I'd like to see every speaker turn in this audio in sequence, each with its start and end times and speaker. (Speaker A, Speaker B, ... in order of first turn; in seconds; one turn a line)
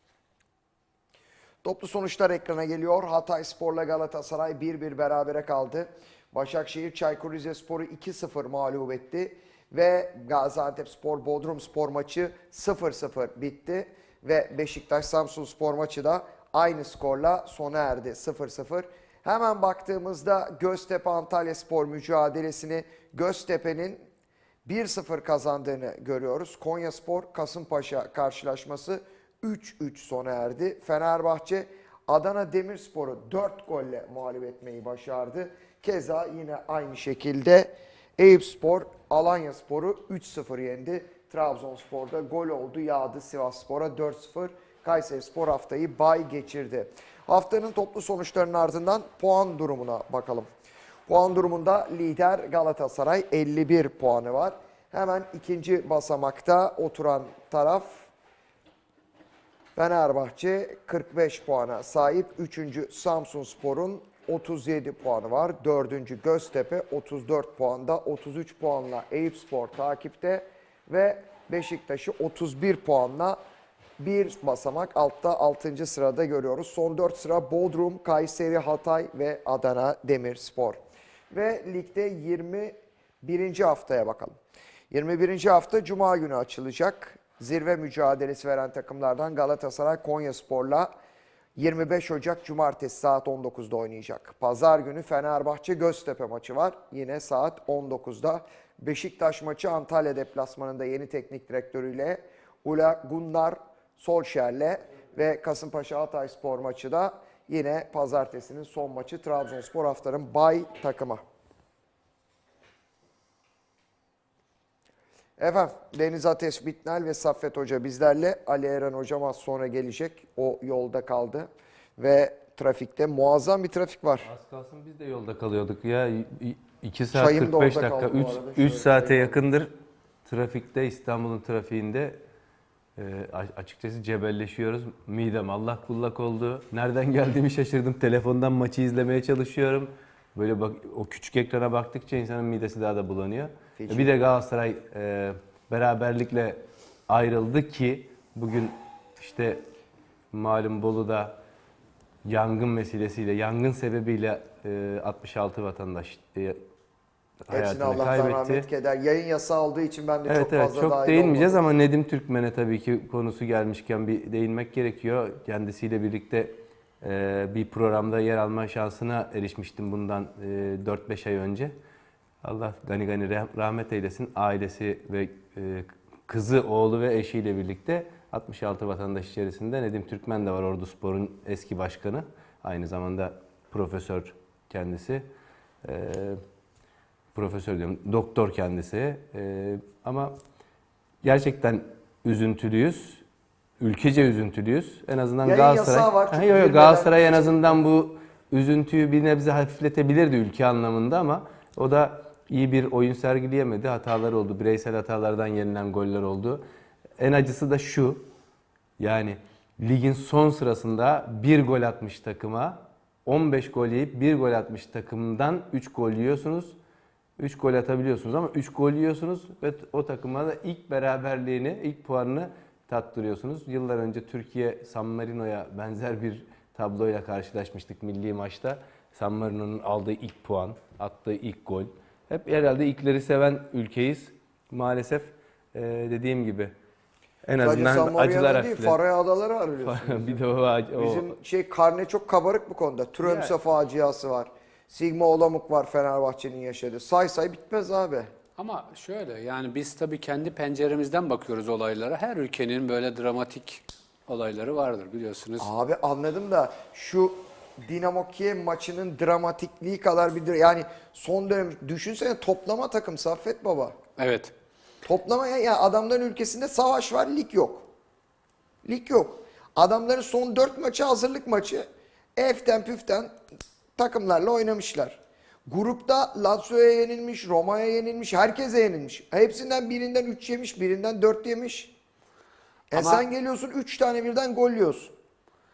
Speaker A: 1.6-24.0
Speaker A: 24.6-50.5
Speaker A: 51.1-58.1
Speaker A: 59.8-73.4
Speaker A: 74.0-84.4
Speaker A: 84.9-90.9
Speaker A: 91.5-111.2
Speaker A: 115.4-124.3
Speaker B: 124.3-129.7
Speaker A: 127.1-129.4
Speaker B: 130.2-132.2
Speaker B: 133.0-149.6
Speaker A: 143.8-144.1
Speaker B: 150.3-151.4
Speaker B: 152.2-156.6
Speaker B: 157.5-158.6
Speaker A: 157.5-161.6
Speaker B: 160.3-171.7
Speaker B: 172.4-185.3
Speaker B: 185.8-186.4
Speaker B: 187.3-190.3
Speaker B: 191.2-193.2
Speaker B: 193.8-206.6
Speaker A: 195.4-197.7
Speaker B: 207.2-208.2
Speaker B: 209.0-216.8
Speaker B: 217.4-236.7
Speaker B: 237.4-239.0
Speaker A: 237.6-240.4
Speaker B: 239.8-241.3
Speaker A: 240.9-248.3
Speaker C: 248.6-255.7
Speaker A: 255.6-263.9
Speaker C: 264.2-264.5
Speaker A: 265.0-267.9
Speaker A: 268.8-273.3
Speaker A: 274.0-281.9
Speaker A: 282.9-285.1
Speaker C: 282.9-283.2